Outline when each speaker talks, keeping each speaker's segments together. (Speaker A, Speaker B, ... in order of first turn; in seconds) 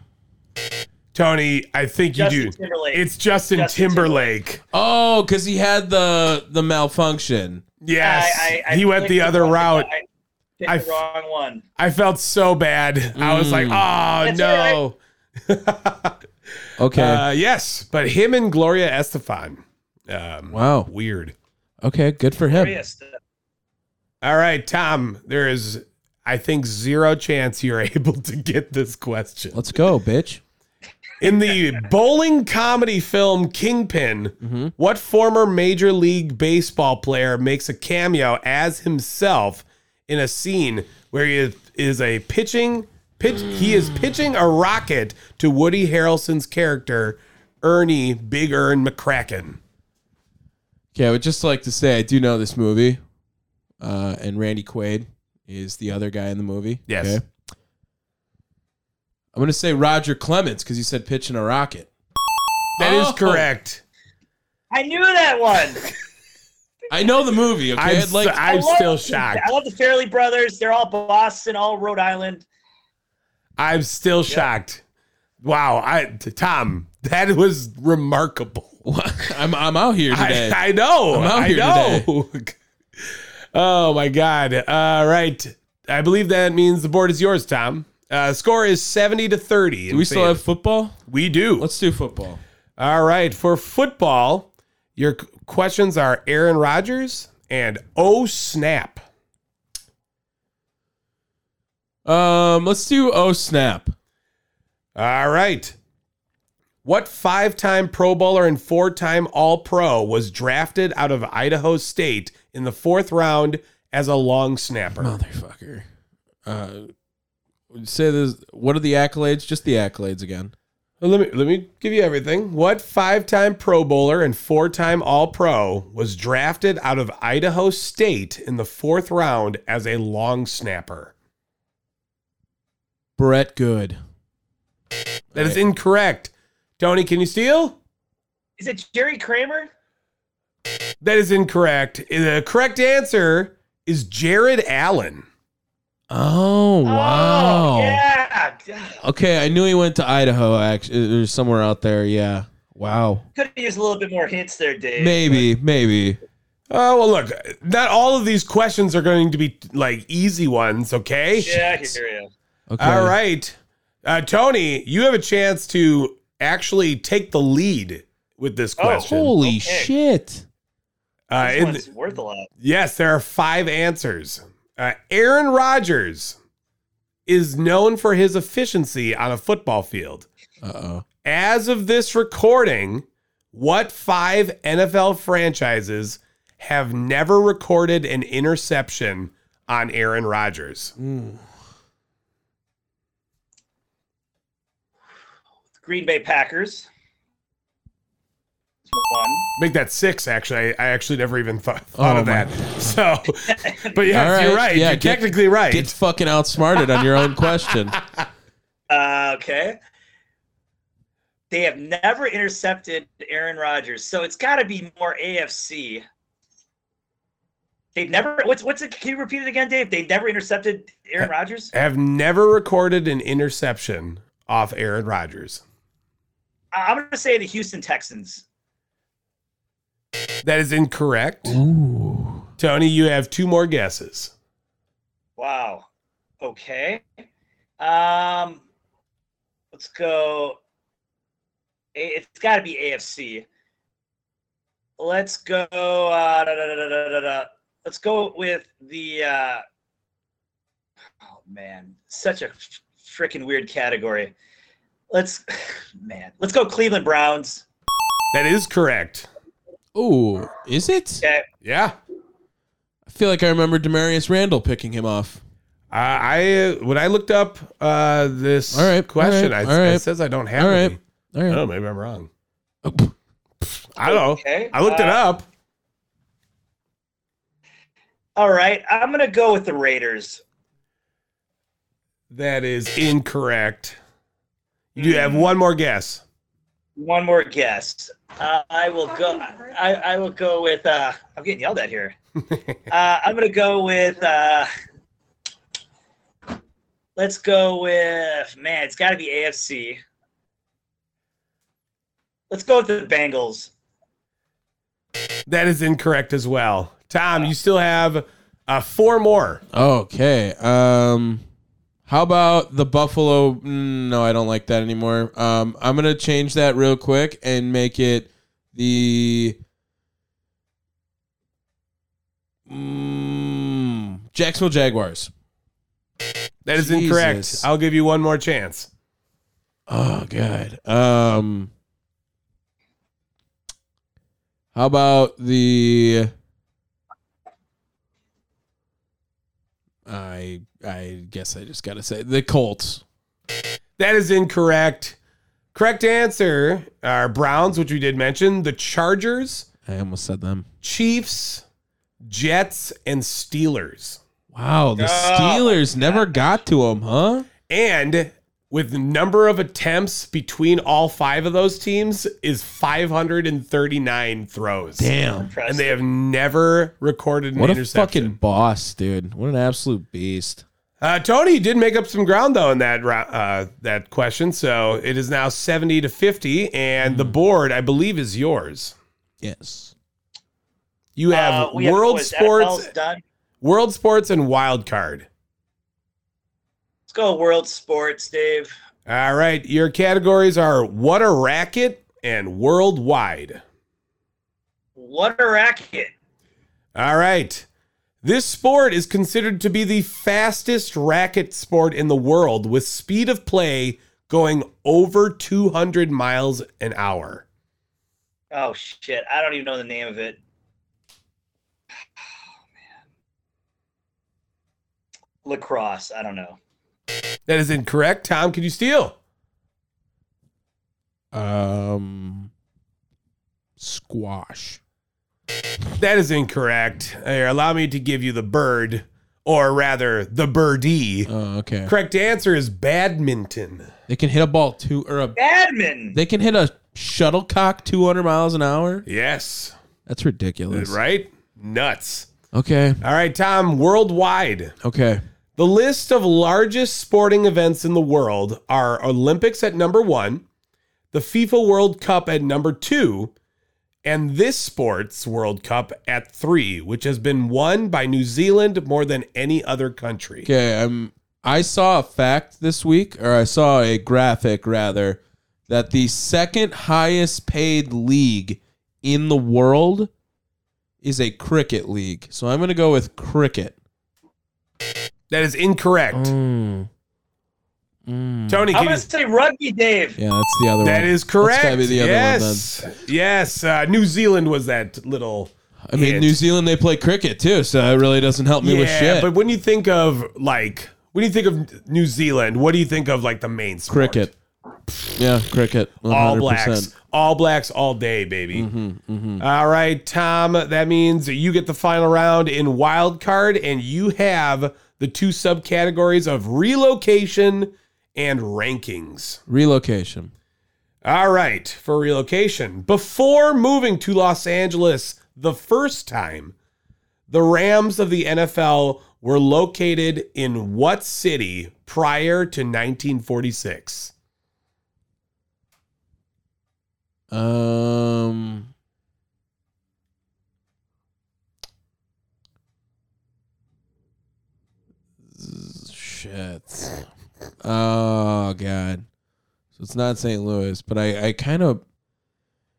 Speaker A: 1.1-4.6, 7.8-9.9, 10.7-11.0, 11.8-16.2, 16.9-21.4, 24.2-29.7, 31.2-49.6, 56.9-57.2, 62.8-63.8, 67.8-69.5, 73.6-74.8, 75.4-78.8, 80.1-82.6, 83.5-90.4, 91.1-91.7, 92.8-99.0, 105.0-105.8, 106.8-115.2, 121.0-131.1, 135.3-137.8, 141.0-145.3, 156.7-161.9, 162.8-169.3, 171.3-171.8, 172.6-176.4, 177.3-180.3, 181.2-190.9, 199.6-205.9, 221.7-225.6, 230.4-231.6, 232.6-234.3, 258.3-259.3, 261.6-262.0, 265.9-272.3, 273.9-275.5, 282.3-284.0, 285.0-286.2, 305.5-309.6, 326.6-328.9, 344.0-345.2, 345.7-349.7, 350.8-351.6, 352.2-354.2, 357.7-365.1, 365.7-368.4, 371.0-379.0, 381.2-382.9, 383.6-385.3, 389.1-393.6, 396.9-397.7, 398.2-407.5, 417.5-419.2, 426.0-431.3, 431.9-433.9, 439.1-439.8, 440.7-442.3, 443.0-444.8, 445.6-450.4, 451.1-453.3, 454.1-460.5, 475.3-476.3, 478.5-479.1, 480.8-486.4, 488.6-494.3, 496.1-498.7, 499.4-509.4, 511.0-516.5, 517.3-524.1
Speaker B: 2.2-4.3, 8.0-10.0, 10.6-11.6, 14.2-14.8, 22.5-23.2, 31.2-31.6, 64.7-65.9, 68.4-72.5, 138.6-139.7, 146.8-149.0, 153.4-155.5, 161.4-162.3, 168.8-169.9, 171.4-172.5, 195.8-196.9, 198.9-199.5, 203.5-204.0, 208.9-209.8, 211.5-216.0, 217.9-221.7, 226.7-228.4, 235.4-235.9, 236.4-237.1, 237.8-238.6, 239.7-240.6, 241.9-243.5, 245.0-249.6, 251.3-254.3, 255.1-257.6, 274.0-275.2, 278.4-280.4, 285.0-285.5, 287.0-292.2, 292.9-294.7, 297.2-300.0, 302.5-303.7, 355.0-356.4, 365.3-366.0, 381.3-383.2, 387.1-388.7, 395.0-396.1, 408.5-410.4, 415.4-416.6, 435.4-436.2, 478.7-480.2
Speaker C: 4.7-7.6, 13.2-13.8, 16.8-17.2, 20.5-20.9, 21.8-22.8, 29.5-30.4, 34.4-34.7, 43.4-44.1, 50.9-53.0, 53.8-57.2, 59.3-61.9, 62.8-63.5, 66.9-68.4, 78.8-80.6, 81.1-82.1, 89.9-91.0, 91.6-92.4, 102.0-103.9, 115.0-115.8, 116.5-116.9, 117.7-120.5, 133.2-134.0, 135.3-135.6, 146.1-148.0, 149.0-153.2, 155.0-156.2, 162.7-163.2, 168.9-170.4, 180.6-181.0, 191.0-191.4, 202.0-202.9, 204.1-208.0, 231.5-232.5, 259.9-261.2, 263.1-265.4, 268.7-270.0, 270.6-271.6, 272.8-273.1, 309.7-311.4, 312.1-319.6, 322.7-325.3, 326.7-327.7, 329.9-331.7, 334.7-336.3, 340.1-343.0, 349.9-350.7, 354.5-357.5, 365.0-365.5, 367.6-370.6, 377.0-377.4, 379.4-379.9, 421.3-422.5, 423.8-424.8, 431.3-431.9, 434.1-435.4, 436.1-439.1, 440.1-441.0, 442.5-443.0, 444.8-445.2, 460.4-470.1, 471.0-473.8, 476.1-476.9, 478.1-478.7, 480.2-482.7, 485.9-489.3, 493.9-494.3, 495.1-496.9, 498.5-499.4, 509.5-510.3, 527.3-528.7, 535.3-537.0, 537.6-539.1, 539.8-541.8